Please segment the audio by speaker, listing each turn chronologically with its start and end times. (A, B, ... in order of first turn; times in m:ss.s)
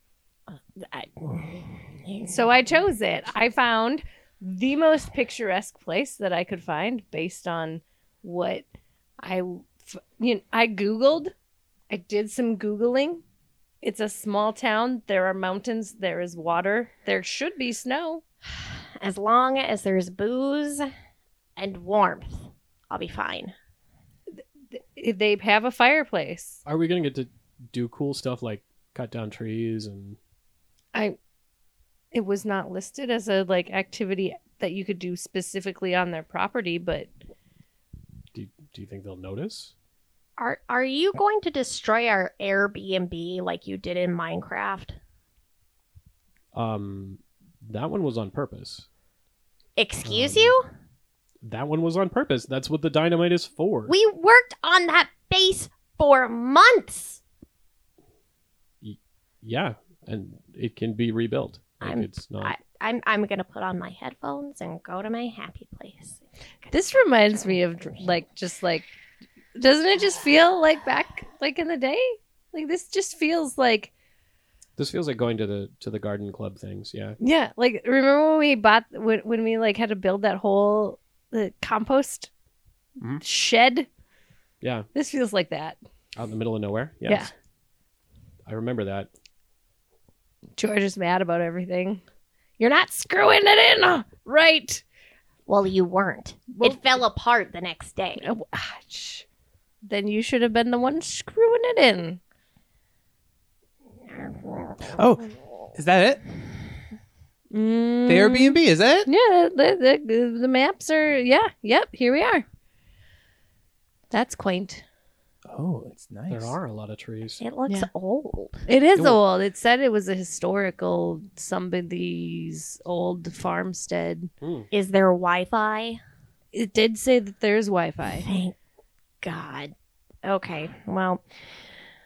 0:00.5-0:02.4 A
0:02.3-0:08.6 B
0:09.2-0:11.3 B
0:11.9-0:13.2 B
0:13.8-0:18.2 B
0:18.5-0:20.9 A
0:21.6-0:23.5 A
0:24.3-0:26.6 B
0:26.6-0:30.2 C
0:32.1-0:37.1 B
0:38.3-0:39.7 C
0:40.4-0:45.0 A
0:46.5-0:48.8 C
0:49.8-0:50.7 A
0:50.0-0:50.5 C
0:51.4-0:53.9 C
0:53.9-0:57.2 A
0:58.8-1:02.6 C
1:01.8-1:06.7 A
1:06.7-1:08.9 B
1:09.5-1:13.9 B
1:14.8-1:17.2 C
1:17.2-1:22.3 B
1:23.2-1:23.9 B
1:24.6-1:24.9 C
1:24.9-1:25.8 B
1:26.2-1:27.3 C
1:28.4-1:29.1 C
1:30.6-1:32.0 B
1:32.6-1:34.8 B
1:35.5-1:38.2 A
1:36.5-1:36.8 B
1:38.2-1:39.2 B
1:39.8-1:42.2 B
1:44.1-1:45.0 A
1:44.9-1:46.2 D
1:47.5-1:48.6 A
1:48.0-1:49.1 D
1:49.0-1:52.4 B
1:54.1-1:54.8 B
1:55.5-1:56.6 D
1:56.3-1:57.4 C
1:57.4-1:58.6 A
1:58.6-2:04.3 B
2:04.4-2:04.7 C
2:04.7-2:06.0 A
2:06.5-2:08.3 B
2:08.2-2:08.5 A
2:09.2-2:11.2 A